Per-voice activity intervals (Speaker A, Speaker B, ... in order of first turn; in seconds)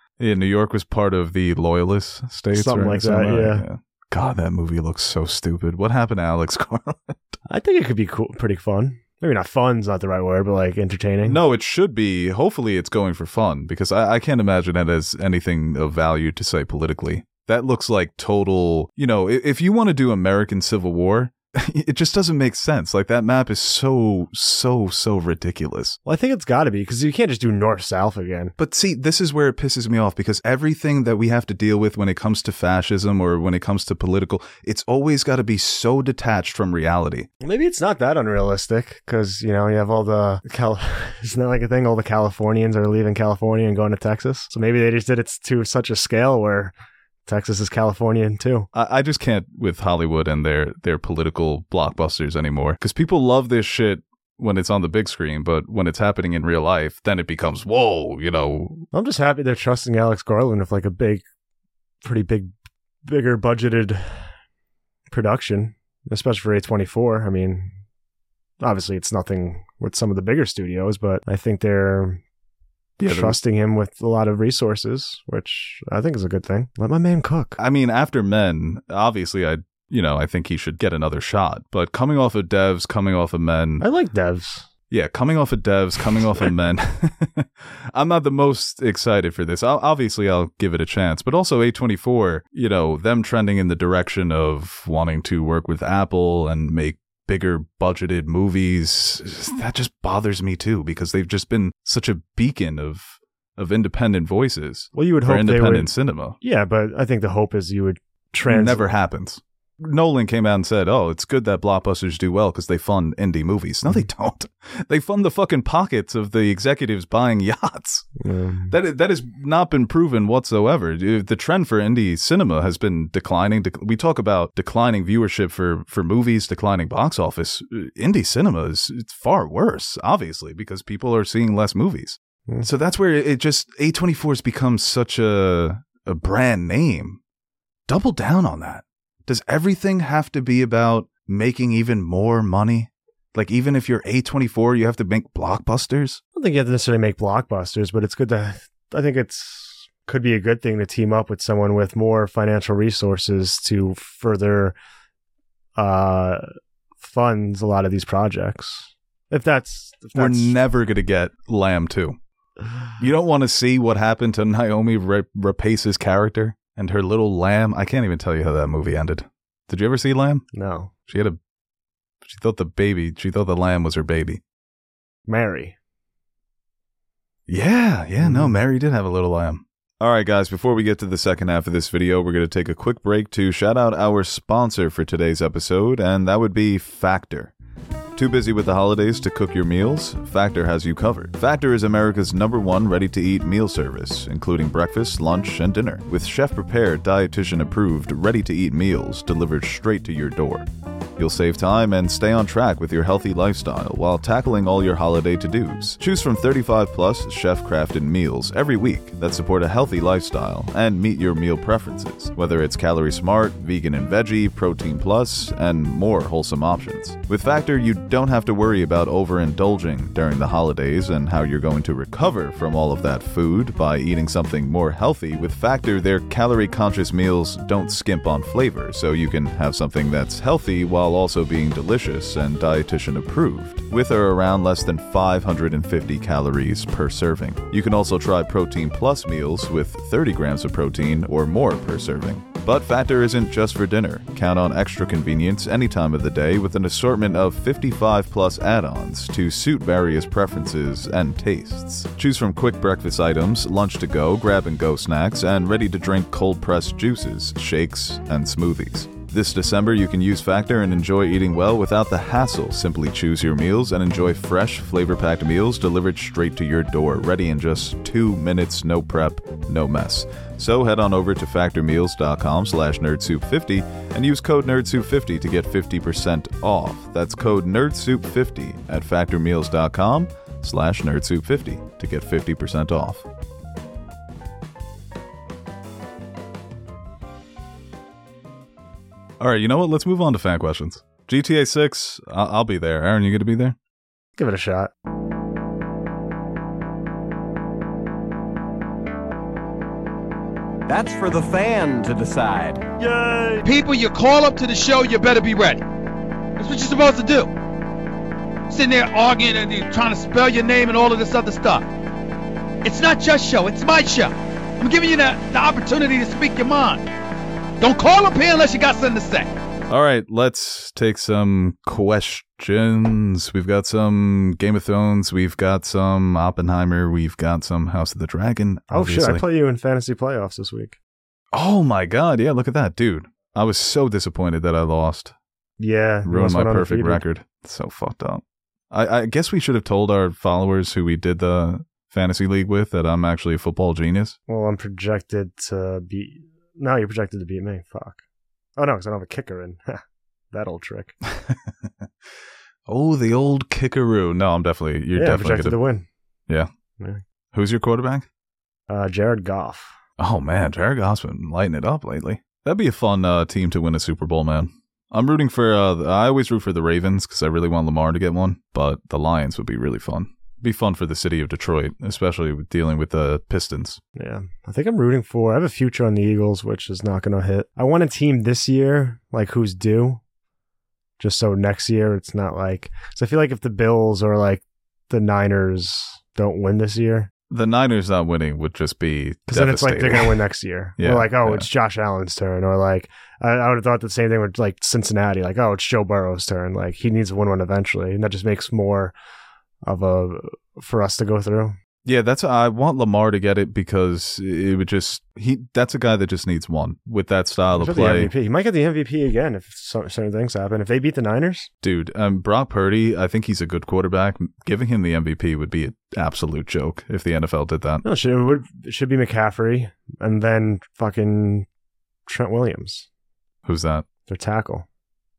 Speaker A: 0.2-7.4, 11.2-26.0, 28.6-37.3, 48.7-58.9, 73.0-73.4, 77.6-83.8, 84.9-106.3, 108.5-118.1, 118.7-137.2, 137.9-146.2, 160.1-162.2, 163.0-170.5, 171.1-171.4, 172.2-174.4, 177.5-187.5, 188.1-283.2, 289.4-293.8, 319.9-329.4, 331.5-335.3, 336.2-344.4, 351.5-351.9, 352.9-355.8, 357.5-358.2, 360.2-374.0, 387.5-390.4, 391.0-391.7, 402.0-408.3, 411.8-418.0, 423.6-424.1
Speaker B: 2.5-3.6, 7.5-11.4, 26.0-28.5, 37.4-46.7, 47.2-48.7, 58.9-61.2, 62.0-62.5, 63.0-64.3, 65.1-67.8, 68.6-72.2, 73.0-77.6, 83.8-84.7, 104.9-108.8, 118.2-118.7, 146.3-154.8, 155.8-156.4, 157.0-160.6, 170.5-170.9, 175.3-175.8, 178.2-178.5, 294.4-294.9, 328.9-331.0, 335.8-337.2, 344.5-348.2, 348.8-351.1, 355.1-356.1, 358.9-360.0, 374.1-380.2, 381.2-387.3, 389.5-399.1, 399.8-401.8, 407.7-411.7, 418.0-421.7, 422.3-423.1, 424.2-424.9
Speaker C: 300.9-303.6
Speaker D: 303.6-305.8, 306.6-307.5, 308.7-311.8, 312.8-317.0, 317.8-319.5